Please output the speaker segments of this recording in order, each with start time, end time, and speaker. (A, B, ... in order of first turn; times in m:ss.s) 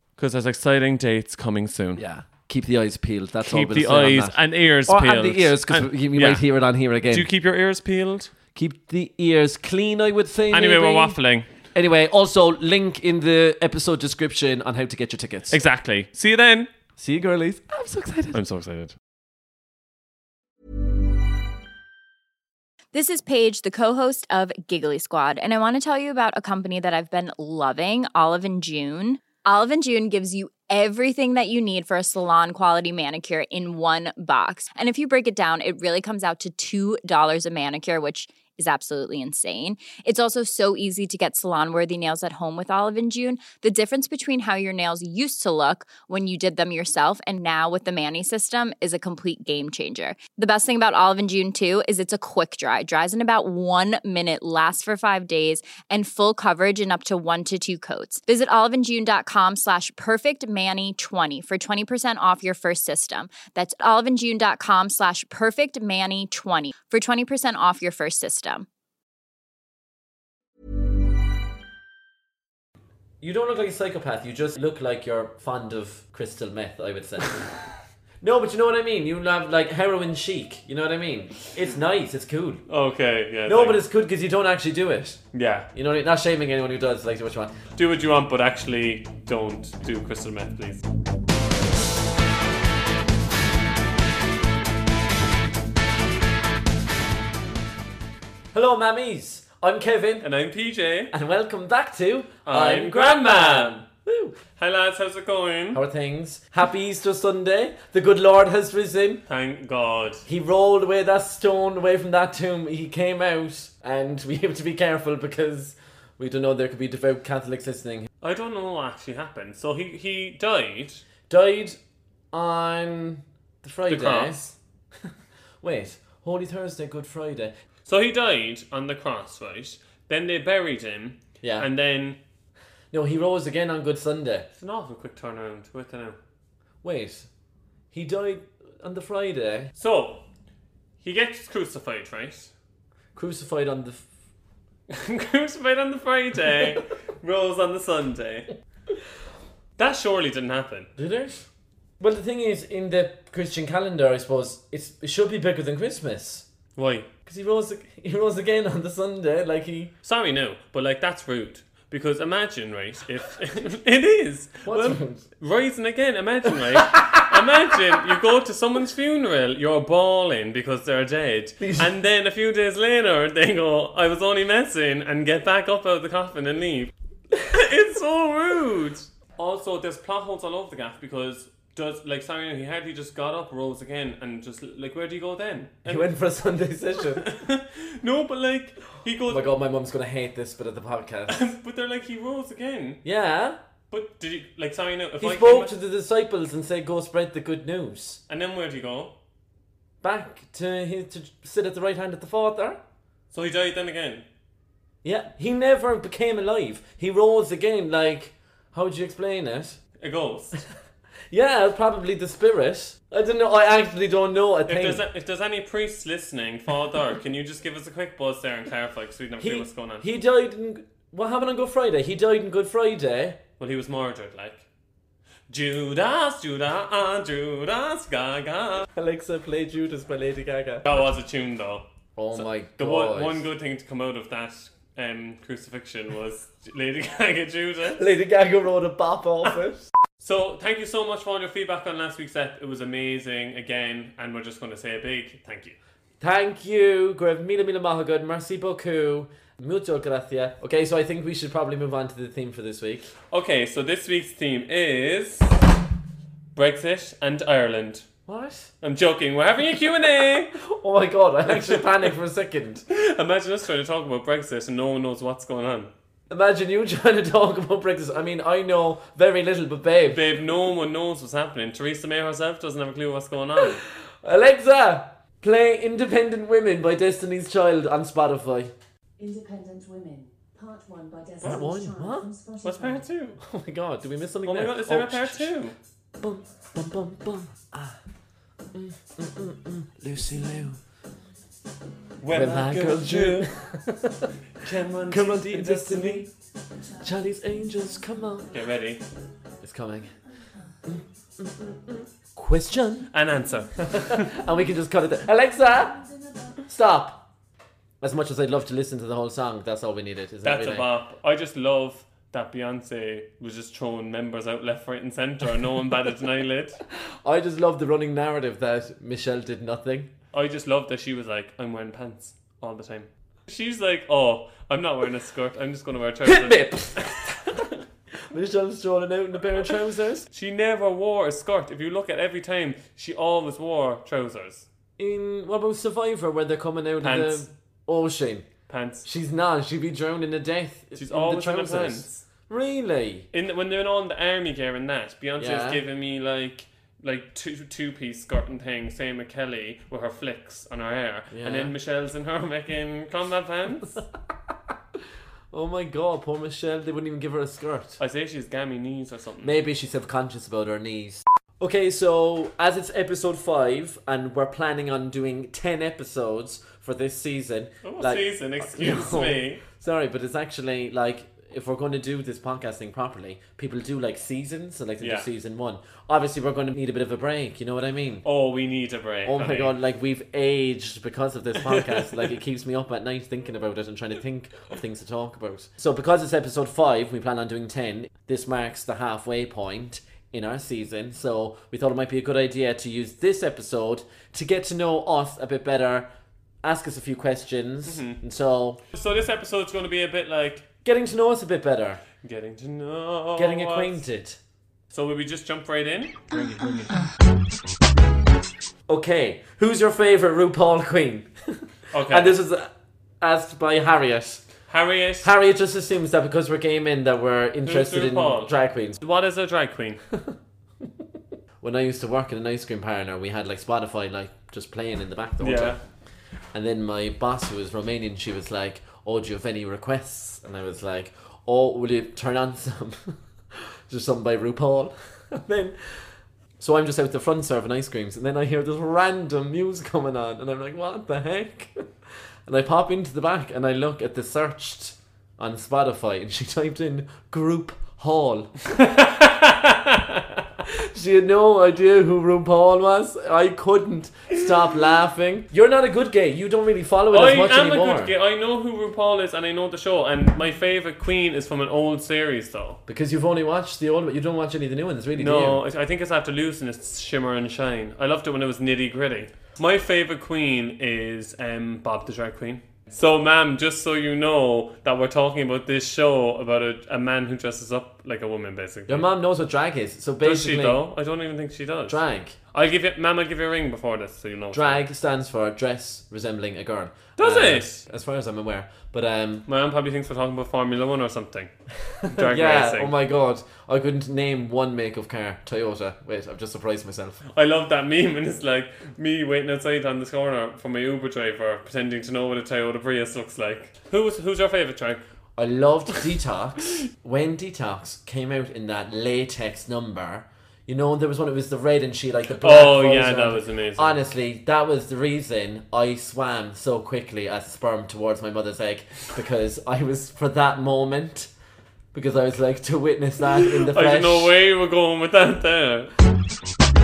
0:00.2-0:02.0 A
0:02.0-0:07.3 B
0:03.4-0:06.4 A
0:07.1-0:08.3 A
0:08.5-0:11.2 B
0:10.5-0:11.5 A
0:11.7-0:15.6 B
0:15.5-0:16.7 A
0:17.0-0:18.4 B
0:18.3-0:18.9 A
0:22.9-1:08.6 C
1:13.2-1:17.4 B
1:18.2-1:22.6 B
1:22.7-1:23.8 A
1:23.5-1:25.2 B
1:25.3-1:25.7 A
1:25.7-1:27.5 B
1:27.8-1:30.8 A
1:38.5-1:40.3 B
1:40.2-1:41.1 A
1:41.1-1:44.4 B
1:42.4-1:43.8 A
1:44.6-1:45.8 A
1:45.7-1:49.2 B
1:49.3-1:50.2 A
1:50.2-1:58.1 B
1:58.2-2:01.0 A
2:01.3-2:01.8 B
2:02.3-2:04.6 B
2:03.9-2:04.4 A
2:05.6-2:07.5 B
2:07.8-2:12.2 A
2:11.4-2:11.7 B
2:12.9-2:14.5 B
2:14.6-2:16.2 A
2:16.8-2:17.3 B
2:17.9-2:19.7 B
2:19.8-2:20.2 A
2:21.0-2:22.5 A
2:23.1-2:24.0 B
2:24.9-2:28.5 A
2:29.8-2:30.9 A
2:31.0-2:31.5 B
2:32.0-2:36.4 B
2:36.8-2:37.1 A
2:37.2-2:39.9 B
2:40.0-2:56.9 A
2:44.6-2:45.2 B
2:46.7-2:47.3 B
2:51.6-2:51.9 B
2:57.4-3:06.1 A
3:05.8-3:07.2 B
3:07.0-3:09.4 A
3:09.3-3:11.4 B
3:11.3-3:13.0 A
3:13.0-3:13.6 B
3:13.9-3:15.7 A
3:15.2-3:18.2 B
3:18.3-3:19.1 A
3:20.0-3:22.8 B
3:23.3-3:24.2 A
3:25.0-3:29.8 B
3:30.0-3:30.6 A
3:31.3-3:35.0 B
3:34.7-3:40.0 A
3:39.4-3:43.4 B
3:43.6-3:44.6 A
3:45.5-3:48.9 A
3:48.9-3:50.9 B
3:50.8-3:58.0 A
3:52.2-3:53.5 B
3:58.0-3:59.9 B
4:00.2-4:05.8 A
4:06.2-4:13.1 B
4:13.3-4:15.6 A
4:16.5-4:18.0 A
4:18.3-4:18.7 B
4:18.8-4:20.6 A
4:20.6-4:22.8 B
4:21.5-4:22.1 A
4:22.9-4:25.9 A
4:26.3-4:30.2 B
4:30.0-4:33.8 A
4:33.8-4:38.7 B
4:39.2-4:43.1 D
4:41.4-4:42.3 B
4:42.6-4:43.4 A
4:43.4-4:45.5 B
4:44.4-4:45.8 A
4:46.2-4:48.0 B
4:48.7-4:50.8 B
4:52.2-4:53.5 A
4:52.3-4:54.3 B
4:54.6-4:56.3 A
4:55.1-4:56.3 B
4:57.0-4:58.5 B
4:58.5-4:59.0 A
4:59.6-5:00.1 B
5:00.8-5:03.1 B
5:03.1-5:04.3 A
5:03.8-5:06.0 B
5:06.6-5:07.2 B
5:08.0-5:10.8 B
5:10.4-5:16.8 A
5:17.2-5:20.1 B
5:20.3-5:27.5 A
5:26.2-5:27.6 B
5:28.3-5:30.2 B
5:30.3-5:34.6 A
5:35.0-5:38.4 B
5:37.0-5:37.5 A
5:38.7-5:39.0 A
5:39.0-5:43.3 B
5:41.0-5:42.2 A
5:43.3-5:54.0 A
5:45.4-5:45.8 B
5:51.3-5:51.7 B
5:55.5-5:58.0 B
5:58.0-5:59.5 A
5:59.4-6:18.2 B
6:07.8-6:09.6 A
6:15.0-6:15.3 A
6:18.2-6:19.7 A
6:19.2-6:36.1 B
6:21.6-6:22.3 A
6:36.6-6:38.8 B
6:37.8-6:38.2 A
6:38.9-6:40.6 A
6:40.8-6:42.0 B
6:42.2-6:44.0 A
6:43.4-6:44.4 B
6:44.9-6:47.0 A
6:48.9-6:54.4 B
6:51.9-6:52.4 A
6:54.7-6:55.3 A
6:55.2-6:59.0 B
6:57.6-7:00.0 A
7:01.6-7:05.8 B
7:05.4-7:05.8 A
7:06.5-7:16.1 B
7:16.6-7:21.7 B
7:22.5-7:28.5 B
7:28.8-7:30.4 A
7:30.9-7:38.1 B
7:37.1-7:42.8 A
7:42.9-7:45.6 B
7:45.2-7:59.1 A
7:58.9-8:00.8 B
8:00.2-8:02.0 A
8:01.9-8:02.4 B
8:02.5-8:04.8 A
8:04.5-8:09.4 B
8:07.2-8:07.8 A
8:09.5-8:11.5 A
8:12.0-8:12.9 A
8:12.0-8:17.2 B
8:17.3-8:25.0 A
8:25.4-8:41.3 B
8:32.4-8:34.0 A
8:41.9-8:44.3 B
8:43.4-8:45.9 A